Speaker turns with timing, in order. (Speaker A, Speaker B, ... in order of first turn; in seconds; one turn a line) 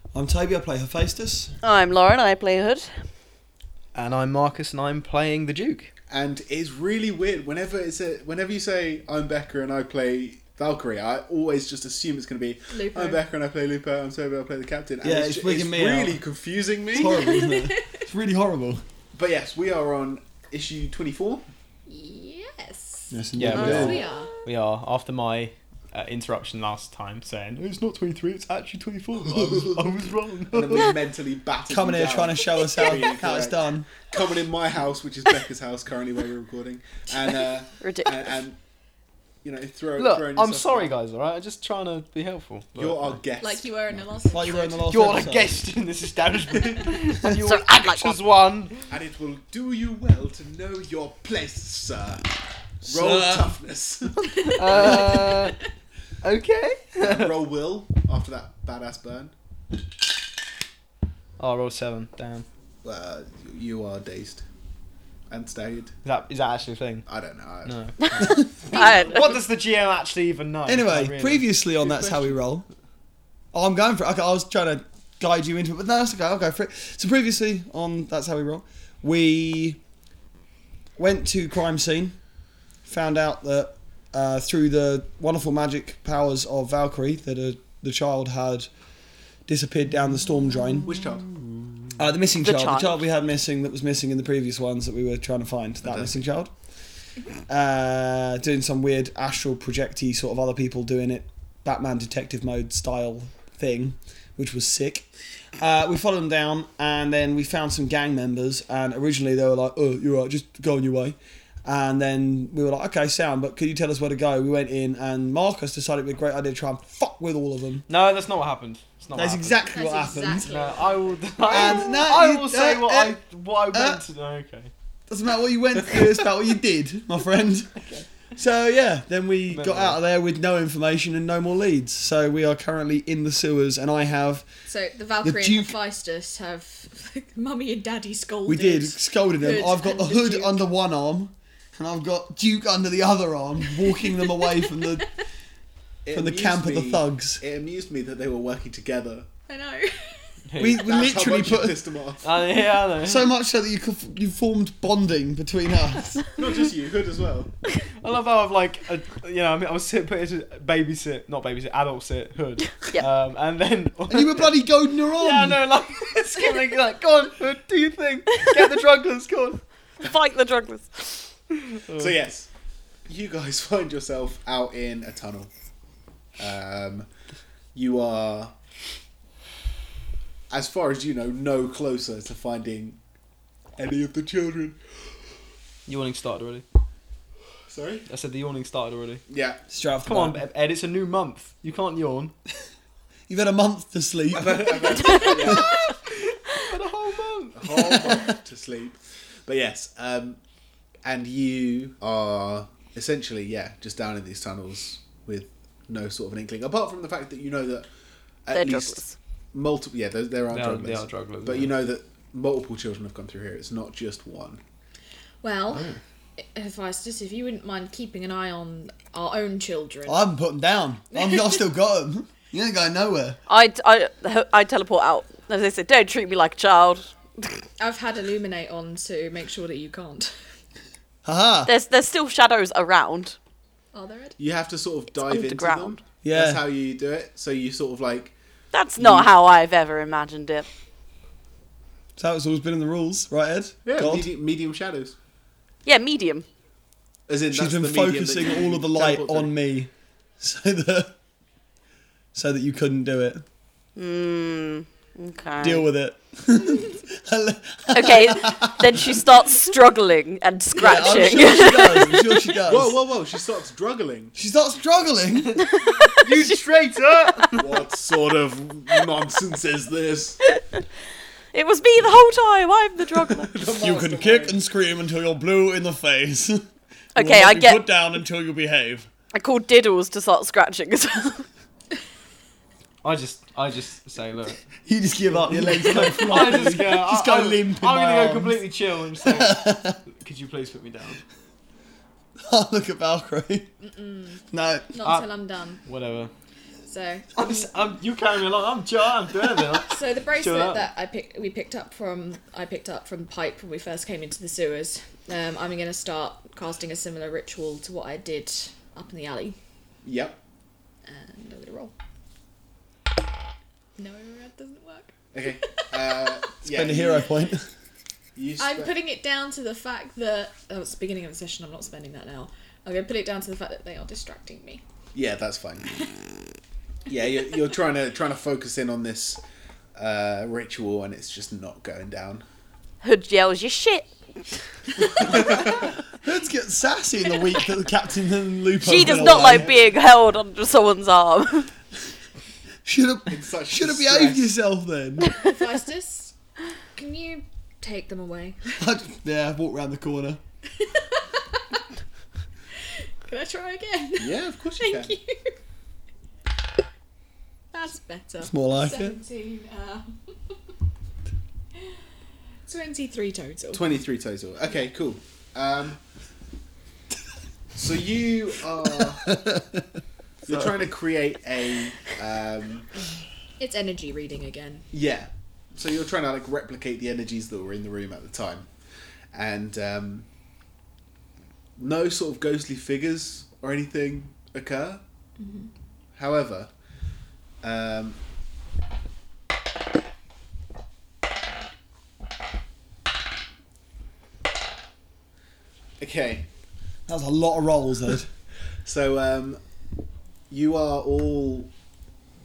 Speaker A: 0.1-1.6
Speaker B: 1.6-3.1
Speaker C: 3.9-5.9
Speaker D: 6.1-17.3
Speaker E: 12.7-13.2
Speaker A: 15.0-16.2
Speaker A: 16.9-18.8
Speaker E: 17.0-18.1
Speaker D: 19.1-21.5
Speaker E: 21.9-24.3
Speaker A: 23.1-24.0
Speaker C: 23.4-30.9
Speaker B: 23.5-24.2
Speaker D: 30.5-38.6
Speaker A: 31.7-33.9
Speaker B: 37.8-38.2
Speaker D: 39.4-40.9
Speaker C: 40.0-43.2
Speaker D: 42.8-43.7
Speaker E: 43.4-44.9
Speaker A: 44.3-45.6
Speaker C: 44.9-48.9
Speaker D: 46.5-47.0
Speaker B: 47.3-48.2
Speaker D: 48.9-52.3
Speaker D: 52.8-55.4
Speaker C: 52.9-53.5
Speaker C: 54.5-55.6
Speaker C: 56.2-57.3
Speaker D: 57.0-59.3
Speaker C: 61.4-62.5
Speaker D: 62.8-64.4
Speaker D: 65.3-66.0
Speaker C: 66.0-67.1
Speaker D: 67.1-67.8
Speaker C: 67.7-71.4
Speaker B: 68.0-69.2
Speaker E: 68.7-69.2
Speaker A: 70.7-72.7
Speaker D: 71.8-72.4
Speaker A: 73.5-79.8
Speaker A: 81.0-82.2
Speaker A: 82.8-88.7
Speaker A: 89.5-91.0
Speaker D: 90.9-91.5
Speaker A: 92.0-96.5
Speaker B: 92.4-93.0
Speaker D: 95.8-96.1
Speaker A: 97.5-117.9
Speaker C: 117.9-119.7
Speaker A: 119.1-120.5
Speaker E: 119.7-122.0
Speaker C: 120.4-124.7
Speaker A: 121.5-123.2
Speaker A: 123.7-124.0
Speaker A: 125.1-127.8
Speaker A: 128.4-134.5
Speaker C: 129.5-130.0
Speaker E: 134.7-140.6
Speaker A: 135.2-135.8
Speaker A: 138.5-145.1
Speaker E: 143.7-145.1
Speaker D: 146.1-149.3
Speaker A: 146.1-147.4
Speaker E: 149.5-150.4
Speaker C: 150.5-150.9
Speaker A: 150.6-151.8
Speaker D: 150.8-152.3
Speaker C: 152.2-153.3
Speaker A: 153.0-156.2
Speaker D: 156.4-157.5
Speaker C: 158.0-164.6
Speaker A: 164.1-165.6
Speaker C: 165.2-169.6
Speaker B: 170.0-171.8
Speaker C: 171.9-172.1
Speaker D: 171.9-172.5
Speaker D: 173.1-175.5
Speaker D: 176.4-177.1
Speaker D: 177.8-178.5
Speaker D: 180.5-183.0
Speaker D: 183.8-184.8
Speaker C: 185.9-186.7
Speaker D: 187.7-188.1
Speaker C: 188.1-189.2
Speaker D: 189.3-189.6
Speaker A: 189.7-190.4
Speaker C: 190.1-192.3
Speaker A: 193.3-195.6
Speaker D: 194.3-195.8
Speaker C: 196.5-197.6
Speaker D: 197.5-200.4
Speaker A: 197.7-198.3
Speaker D: 201.1-207.9
Speaker D: 208.5-214.6
Speaker B: 208.5-209.2
Speaker C: 210.5-211.7
Speaker E: 215.4-220.2
Speaker D: 215.7-216.0
Speaker A: 220.1-223.4
Speaker E: 221.1-221.6
Speaker B: 223.5-227.6
Speaker E: 227.8-230.4
Speaker A: 231.2-231.7
Speaker B: 231.7-233.4
Speaker E: 233.9-234.4
Speaker D: 234.4-238.3
Speaker B: 235.2-236.0
Speaker A: 236.2-236.6
Speaker B: 238.7-240.7
Speaker D: 239.0-239.3
Speaker A: 242.2-244.3
Speaker D: 243.8-245.2
Speaker B: 245.8-246.5
Speaker D: 247.3-249.6
Speaker A: 247.5-251.1
Speaker A: 252.3-253.4
Speaker B: 254.0-255.8
Speaker A: 255.6-259.3
Speaker B: 257.9-262.5
Speaker A: 260.7-263.0
Speaker D: 262.7-264.4
Speaker A: 264.4-265.6
Speaker B: 265.6-266.6
Speaker C: 266.1-267.6
Speaker B: 267.4-267.6
Speaker D: 267.6-270.4
Speaker B: 270.5-270.9
Speaker B: 271.5-273.5
Speaker D: 273.2-274.6
Speaker A: 273.7-276.6
Speaker B: 277.2-277.8
Speaker A: 277.2-279.1
Speaker B: 279.3-281.4
Speaker C: 283.0-284.6
Speaker A: 284.9-288.6
Speaker C: 285.3-291.2
Speaker A: 289.2-290.0
Speaker A: 292.4-293.7
Speaker E: 293.8-295.8
Speaker A: 294.5-295.0
Speaker C: 295.0-295.3
Speaker C: 295.9-296.3
Speaker E: 296.9-297.3
Speaker C: 297.4-300.9
Speaker E: 299.8-309.6
Speaker D: 310.0-310.4
Speaker E: 311.1-311.9
Speaker E: 314.0-316.4
Speaker D: 315.3-317.3
Speaker A: 316.7-317.7
Speaker D: 318.4-318.9
Speaker E: 318.6-324.8
Speaker D: 325.1-326.0
Speaker D: 327.1-329.4
Speaker D: 329.9-332.4
Speaker B: 333.0-334.1
Speaker D: 335.2-335.9
Speaker A: 336.2-339.7
Speaker B: 338.8-341.7
Speaker D: 339.1-339.8
Speaker A: 342.9-345.3
Speaker D: 343.3-344.5
Speaker E: 345.3-346.3
Speaker E: 346.9-348.8
Speaker A: 348.8-350.4
Speaker E: 350.7-351.8
Speaker E: 352.8-355.6
Speaker D: 354.2-355.2
Speaker E: 357.7-360.3
Speaker A: 358.4-359.2
Speaker E: 362.6-363.9
Speaker D: 363.7-366.0
Speaker D: 367.8-369.4
Speaker A: 369.0-369.9
Speaker D: 370.4-372.9
Speaker A: 370.5-370.8
Speaker E: 373.6-374.9
Speaker D: 374.9-378.7
Speaker D: 379.3-380.3
Speaker D: 381.8-385.0
Speaker E: 385.4-385.7
Speaker D: 386.1-386.7
Speaker D: 387.6-388.2
Speaker D: 396.0-396.5
Speaker A: 397.1-398.3
Speaker D: 398.9-399.6
Speaker D: 400.5-401.7